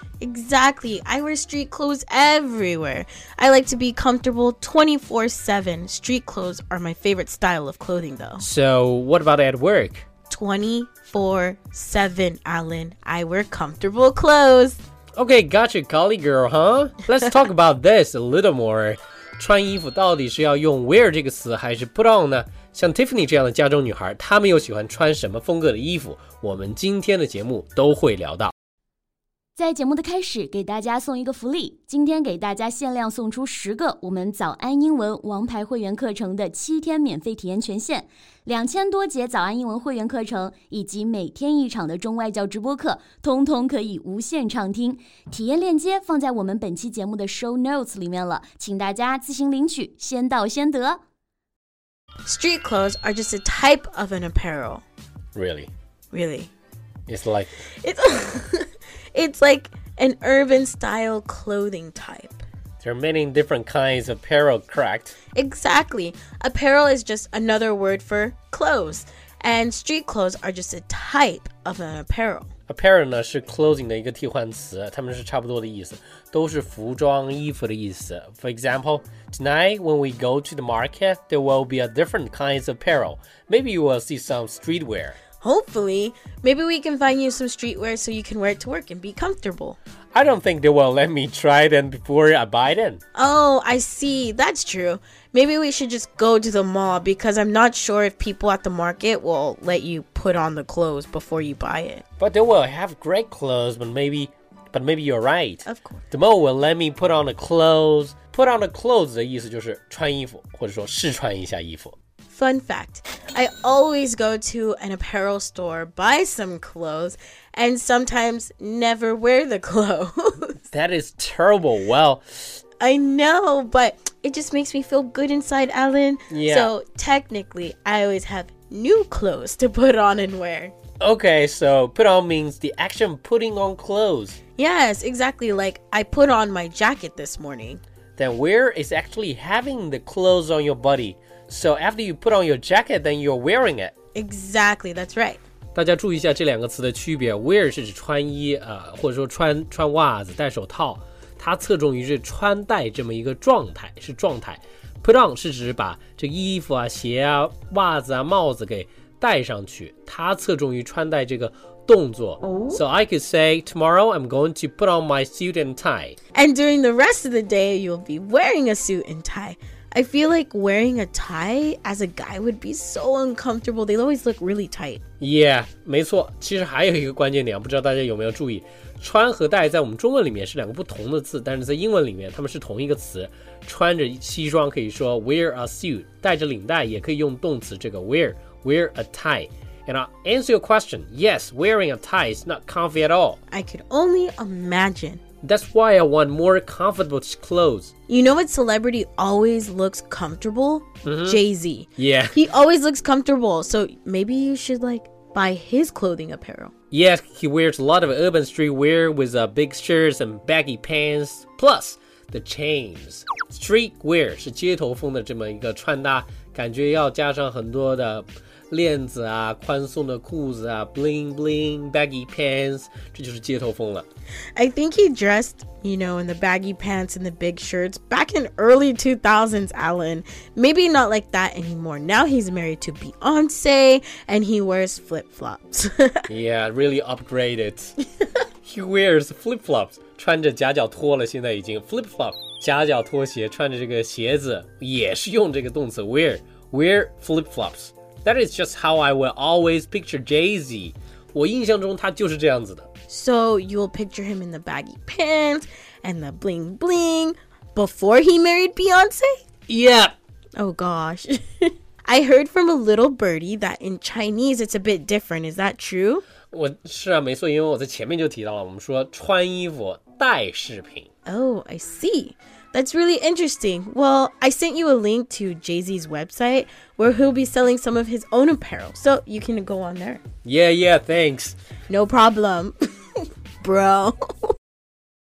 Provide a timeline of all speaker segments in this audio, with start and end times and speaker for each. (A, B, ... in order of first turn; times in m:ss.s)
0:00.2-0:08.4 A
0:08.4-0:10.0 B
0:10.3-0:14.8 A
0:15.2-0:28.5 B
0:29.6-0:51.0 C
0:52.2-0:54.8 A
0:55.3-0:55.7 B
0:56.1-0:56.5 A
0:57.1-0:57.6 B
0:57.8-1:02.4 A
1:02.8-1:05.2 B
1:05.3-1:12.5 A
1:12.7-1:25.2 B
1:25.4-1:29.8 A
1:30.1-1:33.0 B
1:33.1-1:42.0 A
1:42.2-1:51.9 B
1:45.6-1:46.0 A
1:52.3-2:00.5 A
2:00.7-2:02.2 B
2:02.8-2:10.7 A
2:06.3-2:06.7 B
2:11.0-2:14.4 B
2:14.6-2:17.8 A
2:18.2-2:23.9 B
2:24.1-2:25.4 A
2:25.7-2:46.2 B
2:46.3-2:55.0 A
2:55.2-3:13.4 B
3:13.5-3:15.2 A
3:15.4-3:17.9 B
3:18.1-3:26.7 A
3:21.0-3:21.4 B
3:22.0-3:22.4 B
3:26.9-3:44.1 B
3:44.6-3:56.2 A
3:56.3-3:58.0 B
3:58.6-4:12.9 B
4:13.1-4:19.4 A
4:19.7-4:20.1 B
4:20.6-4:26.2 A
4:26.5-4:31.1 B
4:31.3-4:40.2 A
4:40.4-4:41.6 B
4:41.9-4:42.7 A
4:43.6-4:44.2 A